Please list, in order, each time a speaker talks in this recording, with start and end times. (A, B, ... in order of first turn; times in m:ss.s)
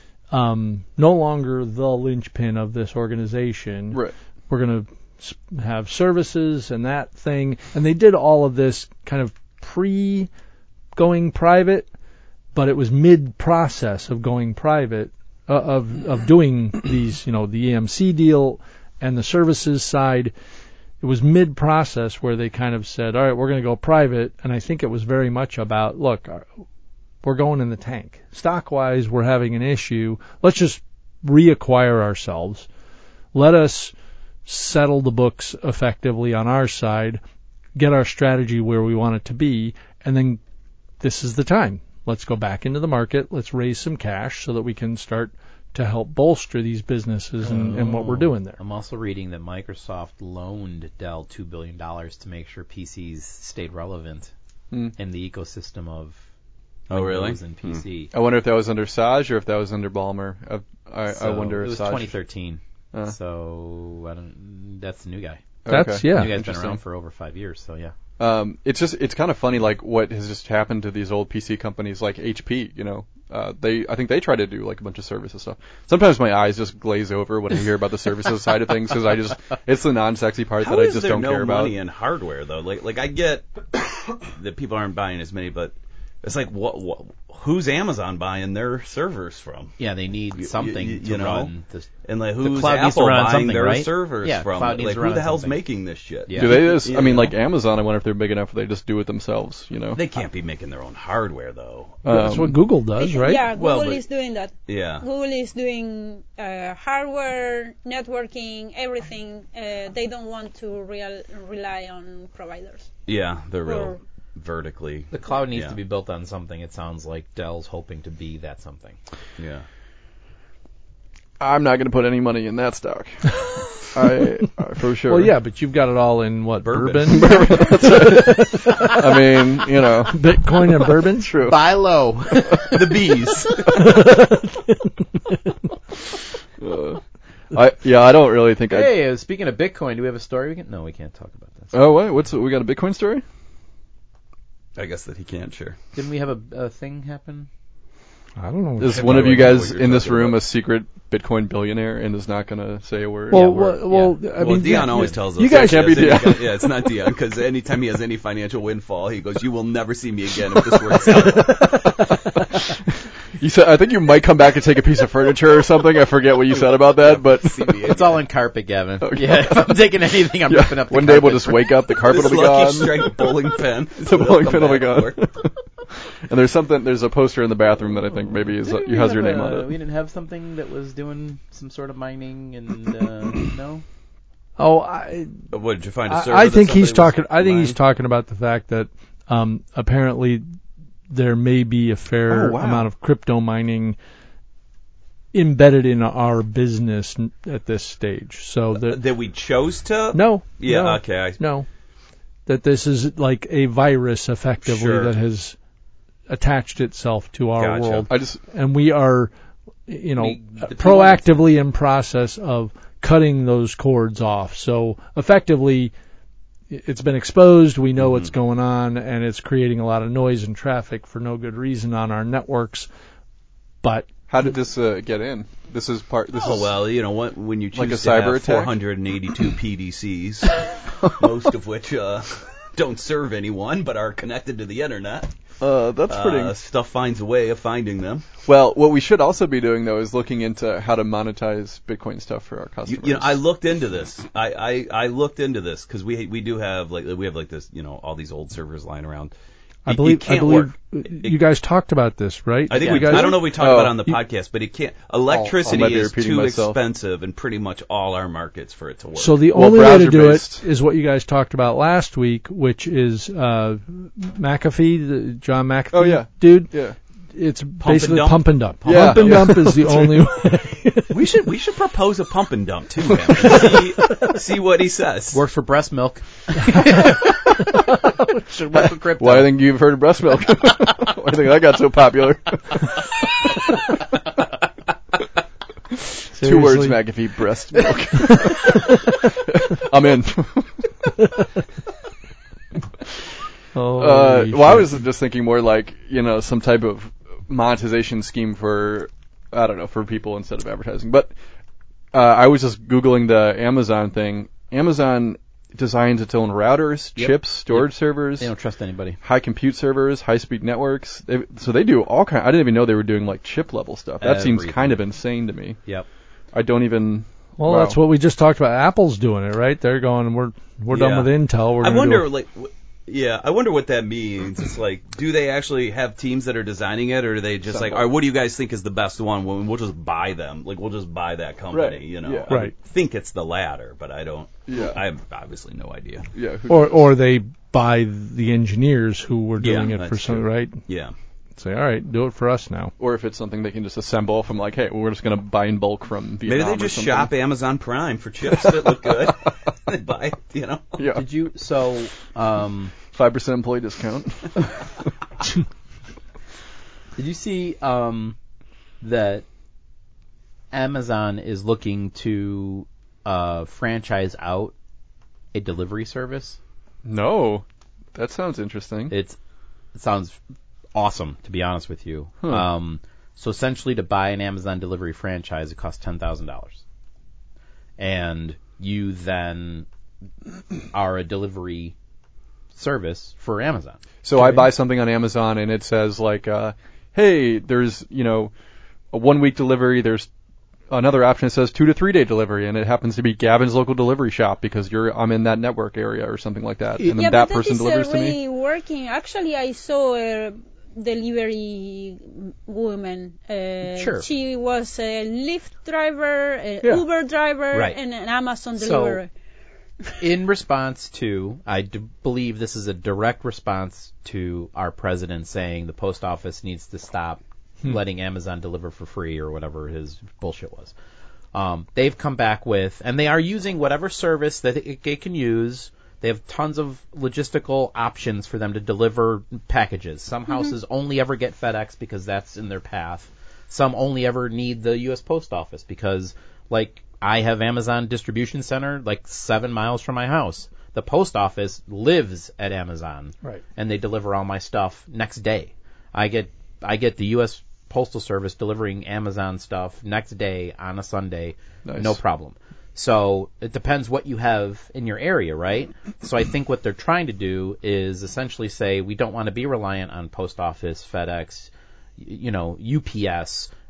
0:00.3-0:10.3 A
0:11.0-0:11.9 A
0:12.5-0:20.3 A
0:21.0-0:26.5 A
0:27.2-0:32.7 A
0:33.3-0:33.9 A
0:34.5-0:37.2 A
0:37.8-0:40.4 A
0:41.0-0:48.6 A
0:47.4-0:54.3 B
0:55.0-0:56.2 B
0:56.9-0:57.8 C
0:56.9-0:58.1 B
0:58.1-1:02.1 D
1:01.1-1:08.0 B
1:05.6-1:06.8 D
1:05.7-1:06.4 A
1:08.2-1:21.8 D
1:20.6-1:29.7 C
1:29.8-1:35.6 B
1:30.4-1:31.5 C
1:32.0-1:37.3 C
1:36.3-1:36.7 B
1:36.3-1:40.0 D
1:40.0-1:42.0 C
1:42.0-1:42.6 D
1:42.1-1:43.4 A
1:43.0-1:52.9 E
1:43.6-1:44.0 C
1:44.7-1:45.1 C
1:53.1-1:55.8 C
1:53.7-1:54.0 E
1:55.1-1:59.0 B
1:59.4-1:59.6 C
2:01.4-2:03.4 D
2:03.9-2:05.3 D
2:05.1-2:09.2 A
2:06.6-2:07.7 C
2:07.1-2:10.2 D
2:10.0-2:11.4 A
2:11.2-2:11.6 D
2:11.4-2:13.6 B
2:12.7-2:13.9 C
2:13.7-2:14.9 A
2:16.6-2:17.0 D
2:17.5-2:18.9 D
2:18.7-2:21.7 B
2:21.7-2:23.2 D
2:24.8-2:25.8 C
2:26.0-2:27.5 B
2:28.4-2:29.3 A
2:28.8-2:33.6 D
2:28.8-2:30.4 C
2:33.3-2:34.2 B
2:33.3-2:36.5 A
2:34.3-2:41.9 C
2:35.5-2:36.5 D
2:41.4-2:42.7 D
2:43.4-2:47.9 D
2:46.5-2:48.2 C
2:47.8-2:52.0 B
2:49.0-2:49.9 D
2:50.5-2:55.6 D
2:52.0-2:55.3 C
2:56.2-2:59.7 D
2:58.5-3:03.8 B
3:04.6-3:05.5 A
3:05.5-3:07.8 C
3:06.0-3:10.4 A
3:11.1-3:14.0 A
3:12.3-3:12.9 D
3:15.3-3:19.0 A
3:18.8-3:21.4 C
3:20.1-3:21.7 A
3:22.5-3:25.6 A
3:24.6-3:25.2 C
3:26.3-3:29.3 A
3:27.6-3:28.1 C
3:28.1-3:28.4 D
3:29.9-3:35.9 A
3:30.2-3:31.3 B
3:36.7-3:42.9 A
3:43.8-3:44.1 A
3:44.3-3:46.8 D
3:46.3-3:50.6 C
3:47.7-3:48.8 D
3:51.2-3:55.3 C
3:55.6-3:56.6 D
3:56.1-3:58.2 C
3:58.5-4:03.4 D
4:02.9-4:09.3 C
4:09.9-4:11.4 C
4:09.9-4:13.5 A
4:12.7-4:19.5 C
4:12.7-4:13.2 B
4:13.1-4:14.0 D
4:15.5-4:16.8 D
4:19.2-4:26.8 A
4:19.5-4:20.6 D
4:25.9-4:27.0 D
4:27.3-4:31.2 A
4:27.8-4:29.6 C
4:28.9-4:30.2 D
4:31.1-4:35.4 C
4:35.3-4:39.6 B
4:38.8-4:43.1 D
4:46.3-4:47.0 A
4:46.3-4:51.2 D
4:53.7-4:55.0 A
4:54.0-5:01.3 D
5:02.1-5:08.5 D
5:07.2-5:09.2 B
5:09.2-5:15.8 D
5:14.2-5:15.0 B
5:16.5-5:18.0 D
5:17.6-5:22.3 A
5:20.9-5:36.3 C
5:27.7-5:28.1 D
5:31.7-5:32.5 D
5:34.7-5:35.0 D
5:36.3-5:37.0 D
5:36.7-5:40.8 A
5:39.6-5:41.1 C
5:41.6-5:42.9 A
5:43.0-5:47.3 D
5:46.4-5:51.0 C
5:51.0-5:51.3 D
5:51.1-5:52.9 B
5:53.1-5:54.8 D
5:57.2-5:58.4 B
5:59.0-5:59.4 B
6:00.7-6:04.7 B
6:05.5-6:06.6 B
6:07.0-6:09.2 D
6:09.1-6:09.4 B
6:09.9-6:10.4 B
6:11.0-6:16.8 B
6:18.0-6:19.9 B
6:20.9-6:22.0 B
6:22.7-6:24.0 B
6:24.2-6:28.5 D
6:24.4-6:24.7 A
6:29.1-6:30.3 D
6:30.9-6:38.4 D
6:37.0-6:49.3 E
6:43.9-6:44.3 B
6:47.7-6:48.0 B
6:48.8-6:49.2 B
6:50.2-7:00.9 B
7:01.5-7:43.7 B
7:31.9-7:32.2 D